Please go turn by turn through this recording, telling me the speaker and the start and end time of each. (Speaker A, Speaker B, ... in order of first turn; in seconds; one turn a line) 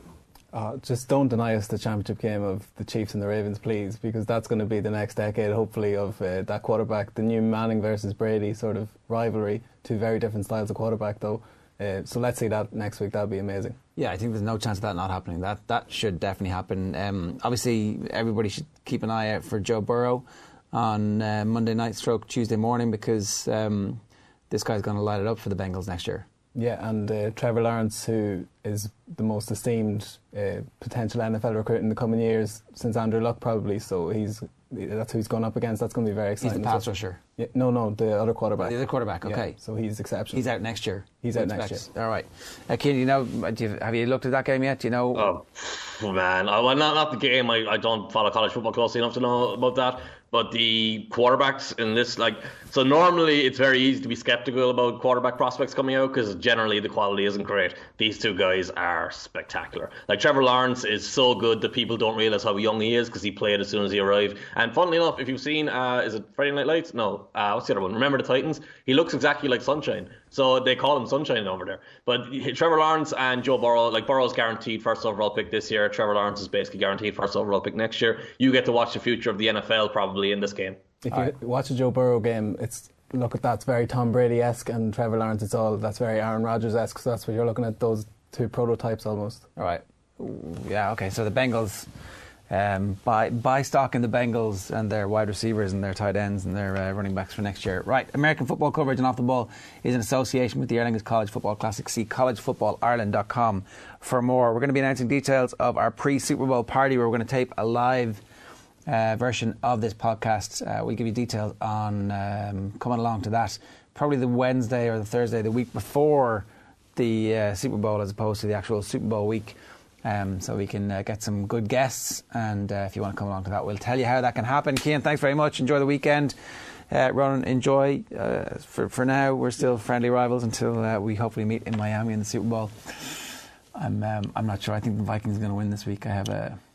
Speaker A: 0.5-13.8
Speaker B: 13.9-26.3
Speaker A: 26.5-36.9
Speaker B: 36.4-37.2
Speaker A: 37.4-40.4
Speaker B: 38.6-39.5
Speaker B: 40.3-45.3
Speaker A: 41.2-41.9
Speaker C: 45.1-80.8
Speaker A: 81.0-89.5
Speaker B: 89.5-91.9
Speaker B: 92.5-108.2
Speaker B: 108.8-126.3
Speaker B: 126.9-136.6